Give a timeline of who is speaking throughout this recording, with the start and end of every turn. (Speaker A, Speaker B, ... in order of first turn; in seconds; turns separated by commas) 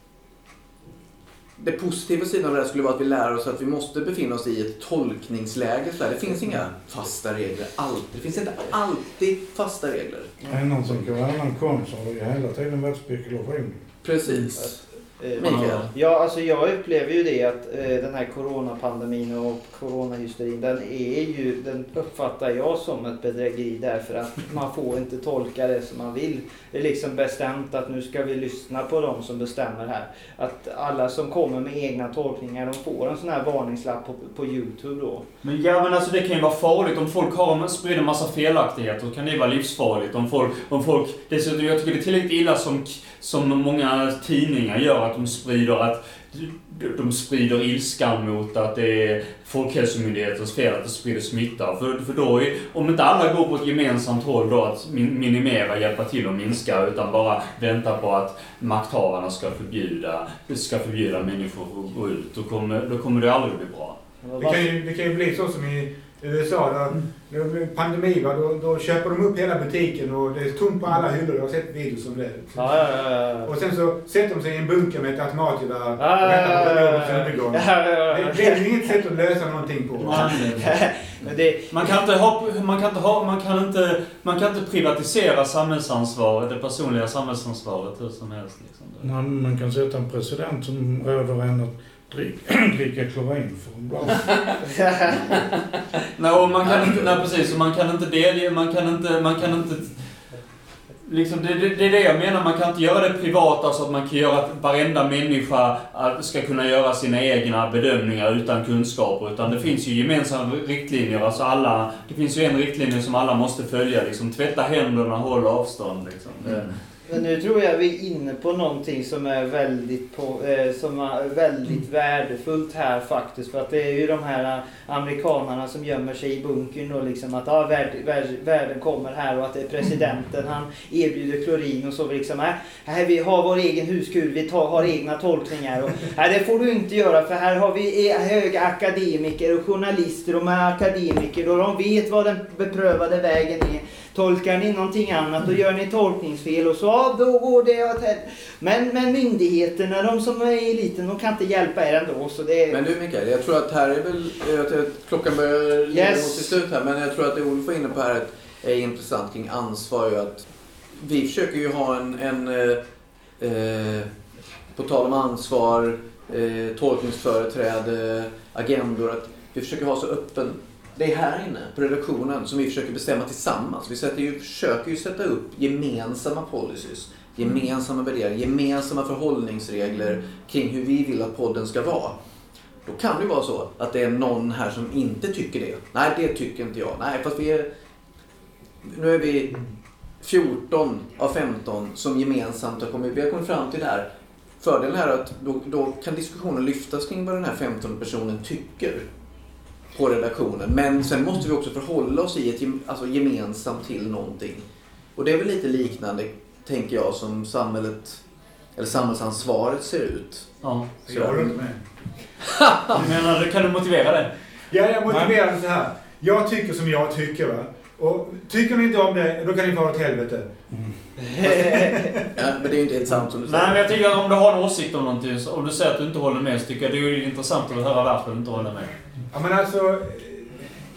Speaker A: 1.6-10.3, Speaker B: 10.5-13.9, Speaker A: 14.0-14.8, Speaker C: 14.6-35.2, Speaker A: 15.4-15.9, Speaker D: 15.4-15.9, Speaker D: 35.4-64.0, Speaker C: 64.2-64.7, Speaker E: 64.4-72.9, Speaker C: 72.5-73.5, Speaker E: 73.5-80.7, Speaker C: 76.0-78.8, Speaker D: 80.0-80.7, Speaker C: 80.1-81.7, Speaker D: 81.7-89.1, Speaker B: 89.0-94.5, Speaker C: 94.7-95.3, Speaker D: 96.2-100.0, Speaker D: 101.0-116.7, Speaker A: 116.4-116.8, Speaker C: 117.1-152.8, Speaker A: 152.7-162.8, Speaker C: 155.9-156.6, Speaker A: 163.4-164.1, Speaker A: 164.7-182.1, Speaker A: 182.8-187.7, Speaker A: 188.8-189.6, Speaker A: 190.2-194.1, Speaker A: 194.6-199.1, Speaker A: 199.9-204.6, Speaker A: 205.2-208.2, Speaker A: 208.8-210.5, Speaker D: 210.6-211.5, Speaker E: 211.1-211.8, Speaker A: 212.4-213.0, Speaker D: 212.9-214.3, Speaker E: 214.7-220.5, Speaker B: 215.1-215.3, Speaker E: 221.3-222.3, Speaker C: 221.4-222.1, Speaker A: 222.3-223.9, Speaker D: 223.4-228.9, Speaker E: 229.3-230.6